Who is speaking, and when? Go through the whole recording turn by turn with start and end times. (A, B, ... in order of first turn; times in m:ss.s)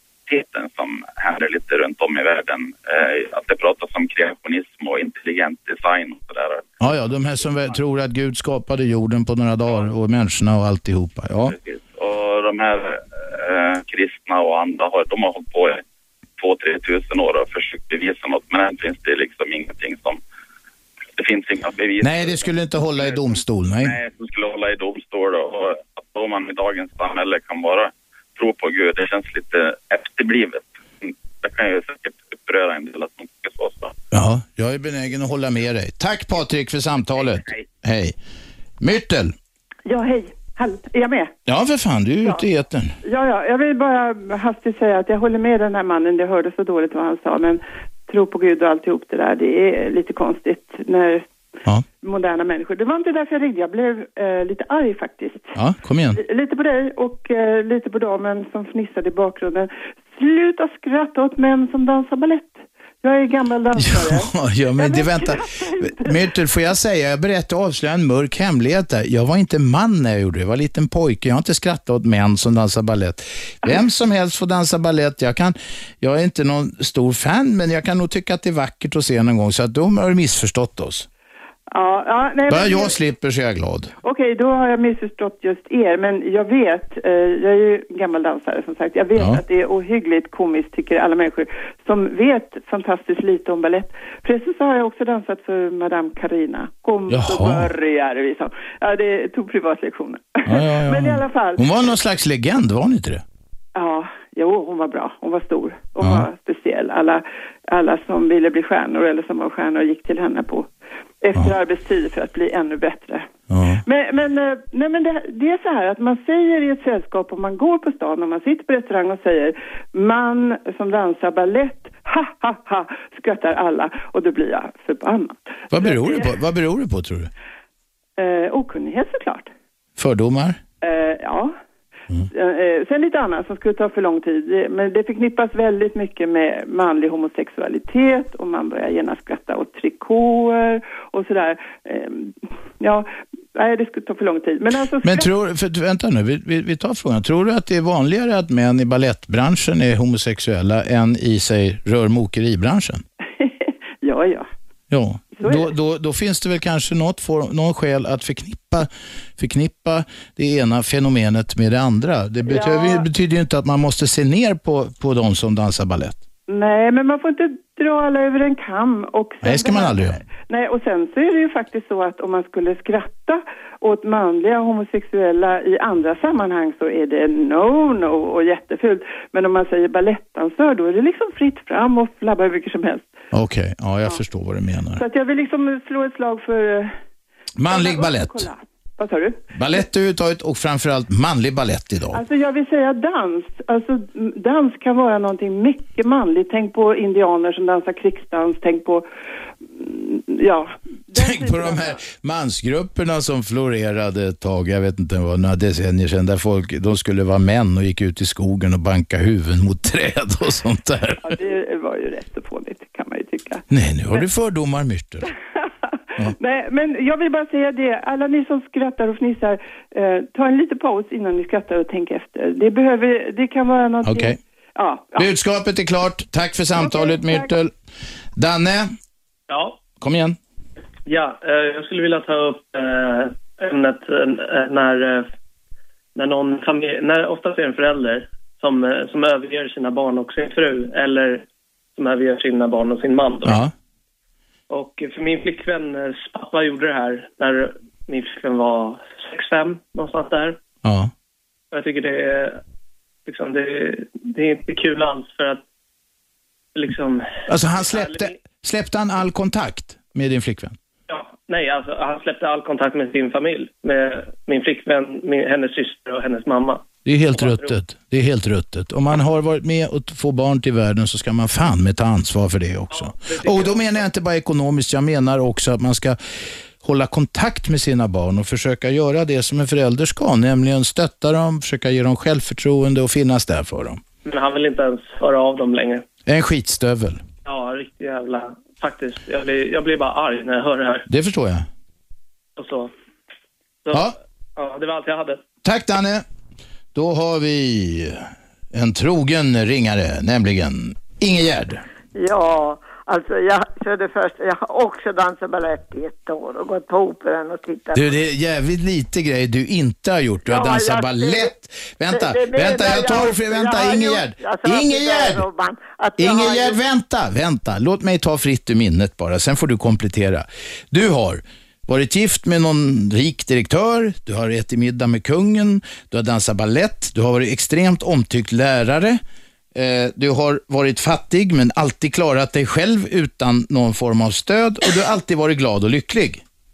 0:00.3-0:06.7 A
0:06.8-0:11.6 B
0:11.5-0:15.8 A
0:16.4-0:20.2 A
0:21.2-0:22.5 A
0:22.0-0:24.0 B
0:23.8-0:34.0 A
0:34.1-0:38.2 B
0:38.8-0:39.3 B
0:39.9-0:41.3 C
0:41.5-0:42.9 B
0:43.0-0:51.3 C
0:52.0-0:55.6 C
0:55.6-0:56.2 B
0:56.2-1:06.2 C
1:03.8-1:21.1 B
1:21.7-1:23.0 C
1:22.5-1:23.9 B
1:24.0-1:41.6 C
1:29.2-1:29.4 B
1:37.1-1:37.7 B
1:40.5-1:43.2 B
1:43.8-1:50.7 C
1:46.0-1:46.3 B
1:51.2-1:53.3 C
1:53.5-1:53.8 B
1:53.8-2:06.3 C
2:05.7-2:07.3 B
2:08.2-2:09.5 C
2:10.0-2:10.6 B
2:10.8-2:11.6 C
2:12.3-2:25.3 C
2:25.0-2:33.0 B
2:33.4-2:34.5 C
2:34.9-2:46.2 B
2:35.4-2:35.7 C
2:42.5-2:43.1 C
2:46.5-3:03.1 C
2:49.4-2:50.2 B
3:03.3-3:05.0 B
3:05.0-3:06.9 C
3:07.6-3:08.5 B
3:07.7-3:09.8 C
3:09.5-3:12.2 B
3:12.1-3:19.1 C
3:19.7-3:22.0 C
3:21.2-3:31.3 B
3:31.2-3:34.2 C
3:33.7-3:35.3 B
3:36.2-3:45.3 C
3:44.0-3:44.4 B
3:45.2-3:47.7 B
3:46.8-3:47.5 C
3:48.4-3:48.9 B
3:49.5-3:49.8 D
3:50.0-3:50.4 B
3:51.1-3:55.3 D
3:56.2-4:01.4 D
4:02.0-4:03.6 D
4:03.4-4:03.7 B
4:04.7-4:10.6 D
4:10.8-4:11.1 B
4:11.7-4:12.6 D
4:13.3-4:15.6 D
4:16.8-4:18.4 D
4:17.5-4:20.8 B
4:21.1-4:27.8 D
4:27.0-4:36.2 B
4:32.9-4:34.0 D
4:36.8-4:44.0 B
4:44.2-4:46.0 D
4:46.3-4:47.2 B
4:47.4-4:51.1 D
4:51.1-4:51.7 B
4:52.6-4:52.9 D
4:53.8-4:55.4 D
4:55.6-4:56.2 B
4:57.0-5:01.8 B
5:02.2-5:08.1 E
5:07.9-5:15.4 B
5:10.5-5:11.5 E
5:12.1-5:16.8 E
5:16.2-5:29.2 B
5:29.8-5:36.4 B